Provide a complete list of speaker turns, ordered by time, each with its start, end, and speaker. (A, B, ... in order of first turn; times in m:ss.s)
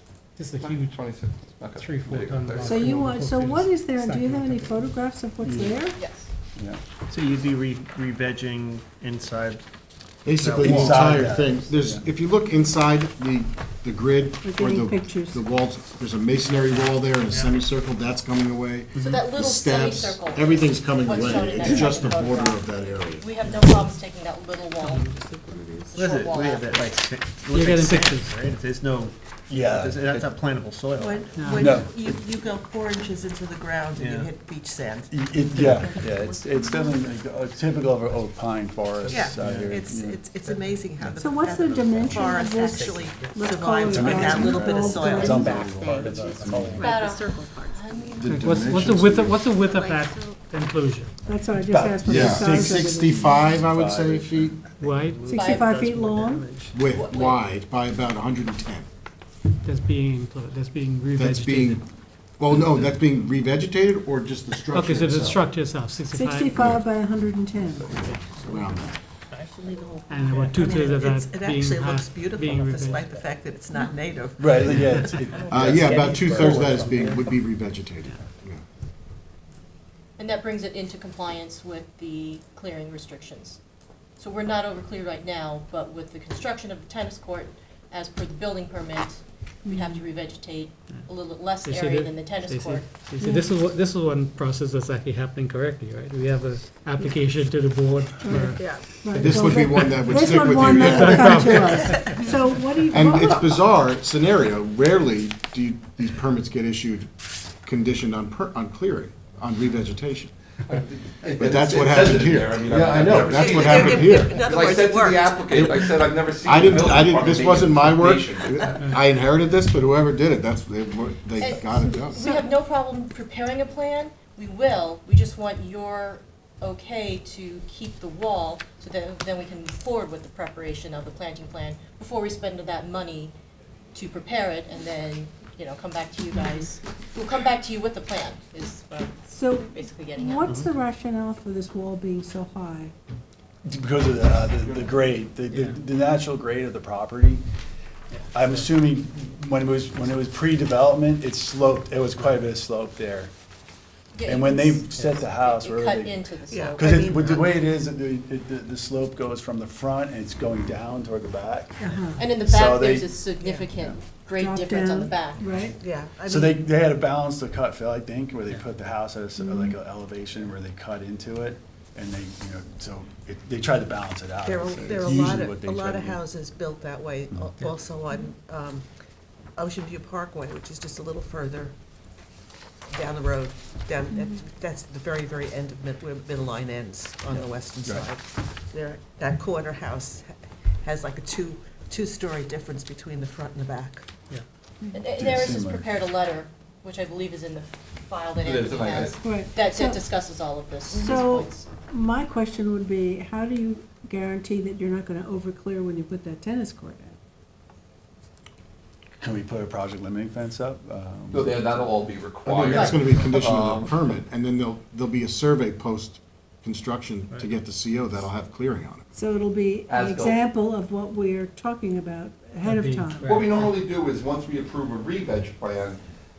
0:00.4-0:01.0 A
0:00.6-0:02.9 B
0:01.8-0:04.8 A
0:02.6-0:06.0 C
0:05.4-0:05.8 D
0:06.0-0:06.3 E
0:06.6-0:06.8 D
0:07.1-0:09.6 F
0:10.2-0:23.3 G
0:10.3-0:11.7 F
0:10.6-0:12.1 D
0:14.4-0:15.5 C
0:17.2-0:17.6 F
0:19.0-0:19.3 F
0:19.0-0:25.0 E
0:24.8-0:25.1 A
0:25.0-0:31.5 F
0:25.9-0:26.9 E
0:27.5-0:28.4 A
0:29.5-0:30.1 D
0:31.0-0:35.2 H
0:31.4-0:31.8 A
0:31.5-0:32.0 D
0:33.9-0:34.3 F
0:35.1-0:40.2 D
0:35.6-0:35.8 A
0:35.7-0:36.2 H
0:35.9-0:36.4 E
0:39.0-0:39.8 F
0:39.0-0:46.0 H
0:40.3-0:41.7 F
0:41.2-0:45.6 C
0:42.9-0:43.3 F
0:43.8-0:46.9 D
0:45.8-0:46.9 F
0:46.8-0:48.3 E
0:48.2-0:49.4 G
0:48.2-0:51.1 A
0:49.7-0:50.0 E
0:51.2-0:53.5 C
0:51.6-0:54.6 D
0:52.0-0:54.6 G
0:54.6-0:56.8 F
0:54.8-0:55.3 A
0:55.3-0:56.5 C
0:55.3-0:55.7 E
0:56.7-0:58.9 G
0:56.9-0:57.4 E
0:59.6-1:01.8 A
1:01.2-1:01.8 G
1:02.4-1:05.4 G
1:04.7-1:06.7 A
1:06.1-1:08.0 C
1:07.9-1:08.6 A
1:08.4-1:08.9 G
1:09.3-1:16.8 H
1:10.1-1:13.2 A
1:14.4-1:17.0 D
1:15.5-1:18.6 G
1:15.8-1:17.2 F
1:20.2-1:23.6 E
1:24.2-1:32.9 E
1:29.6-1:30.0 C
1:31.6-1:42.3 A
1:33.2-1:33.6 C
1:38.2-1:43.6 C
1:38.6-1:38.9 H
1:39.2-1:41.8 G
1:42.9-1:47.1 G
1:47.6-1:50.3 G
1:50.6-1:58.7 B
1:51.4-1:54.4 G
1:53.2-1:55.9 H
1:56.4-2:02.3 G
2:01.4-2:13.3 E
2:02.2-2:02.5 C
2:13.9-2:20.6 E
2:19.3-2:22.9 C
2:23.6-2:27.4 D
2:24.5-2:25.0 B
2:25.5-2:25.8 A
2:28.1-2:28.6 A
2:28.3-2:33.3 D
2:34.1-2:37.4 E
2:34.2-2:36.2 D
2:36.5-2:37.6 H
2:36.8-2:43.2 D
2:41.8-2:42.3 C
2:42.2-2:45.4 E
2:43.4-2:43.7 H
2:43.7-2:44.0 D
2:44.3-2:45.8 C
2:45.8-2:46.7 H
2:46.2-2:56.2 D
2:49.4-2:49.8 C
2:54.4-2:58.8 H
2:59.6-3:01.8 H
3:02.9-3:14.1 H
3:04.1-3:04.4 C
3:07.3-3:08.1 D
3:14.9-3:21.7 E
3:15.1-3:15.9 D
3:18.4-3:19.2 B
3:19.2-3:20.0 C
3:20.9-3:27.2 C
3:29.2-3:31.6 D
3:31.3-3:34.1 B
3:32.6-3:39.0 G
3:32.7-3:33.0 E
3:39.1-3:43.3 C
3:39.9-3:40.4 B
3:42.6-3:43.6 A
3:43.2-3:46.0 B